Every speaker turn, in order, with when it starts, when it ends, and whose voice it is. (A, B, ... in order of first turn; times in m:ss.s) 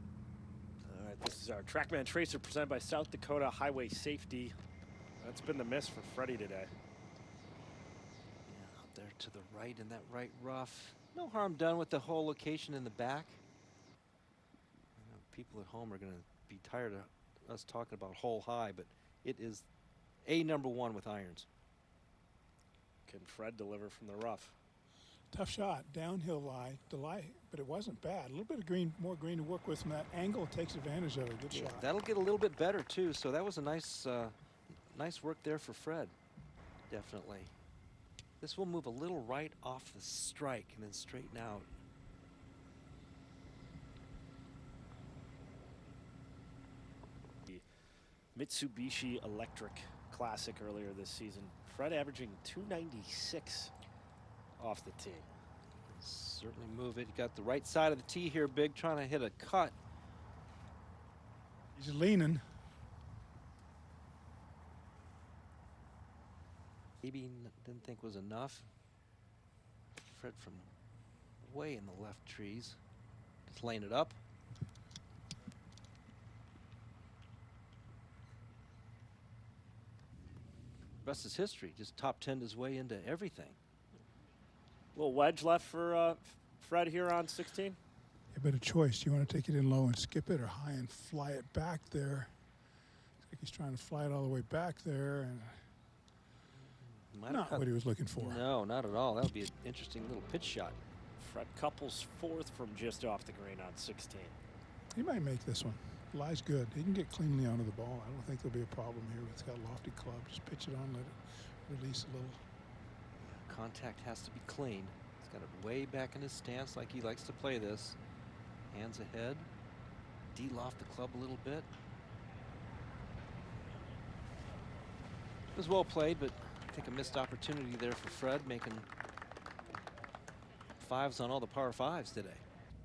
0:00.8-0:04.6 A
0:05.2-0:06.7 A
0:08.5-0:13.4 B
0:15.0-0:19.7 B
0:20.2-0:21.5 B
0:23.1-0:24.6 A
0:25.3-0:31.9 C
0:31.5-0:36.2 B
0:36.9-0:37.5 B
0:38.4-0:41.7 B
0:48.4-0:53.7 A
0:54.6-0:55.3 A
0:55.8-0:59.8 B
1:01.8-1:02.4 C
1:07.0-1:08.7 B
1:10.0-1:10.7 B
1:11.4-1:12.8 B
1:13.5-1:14.2 B
1:21.0-1:23.6 B
1:25.0-1:27.8 A
1:28.3-1:32.3 C
1:33.2-1:35.6 C
1:36.6-1:40.8 B
1:37.3-1:38.4 C
1:41.2-1:44.4 A
1:45.0-1:52.4 C
1:53.2-1:58.0 B
1:58.7-1:59.5 B
2:00.3-2:01.7 B
2:05.5-2:08.9 B
2:10.8-2:12.4 B